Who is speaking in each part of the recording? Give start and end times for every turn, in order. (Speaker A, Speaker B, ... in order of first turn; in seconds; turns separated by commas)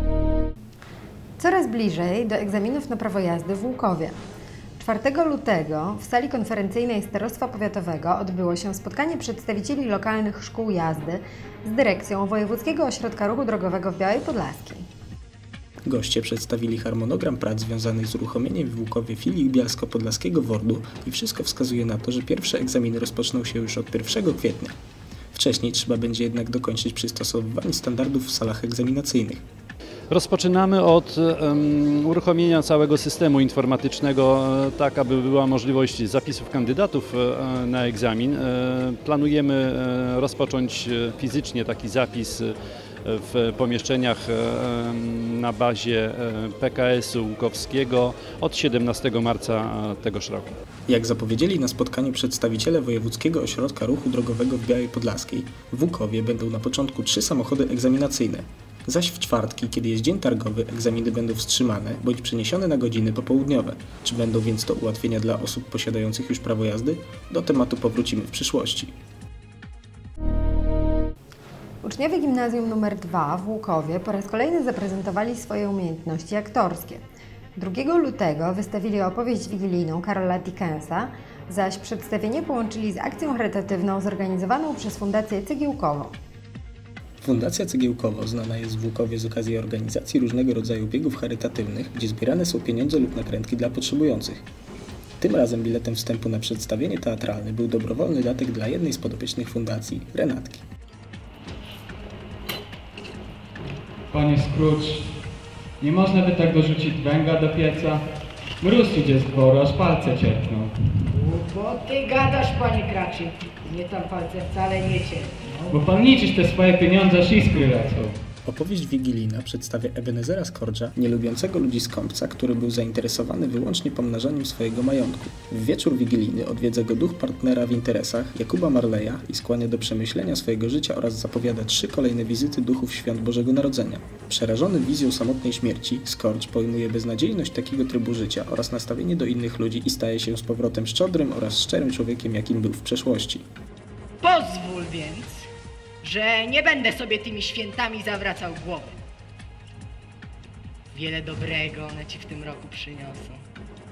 Speaker A: 1.4-4.2, Speaker A: 4.8-14.9, Speaker B: 15.8-24.7, Speaker B: 25.3-29.4, Speaker C: 30.1-50.6, Speaker B: 50.9-68.9, Speaker A: 71.8-77.0, Speaker A: 77.5-86.1, Speaker B: 87.2-94.4, Speaker B: 95.2-100.6, Speaker D: 104.1-105.2, Speaker D: 105.8-108.0, Speaker D: 108.6-111.1, Speaker E: 111.2-115.7, Speaker D: 115.7-118.2, Speaker B: 118.5-143.4, Speaker E: 144.2-145.4, Speaker E: 146.0-148.9, Speaker E: 150.9-153.4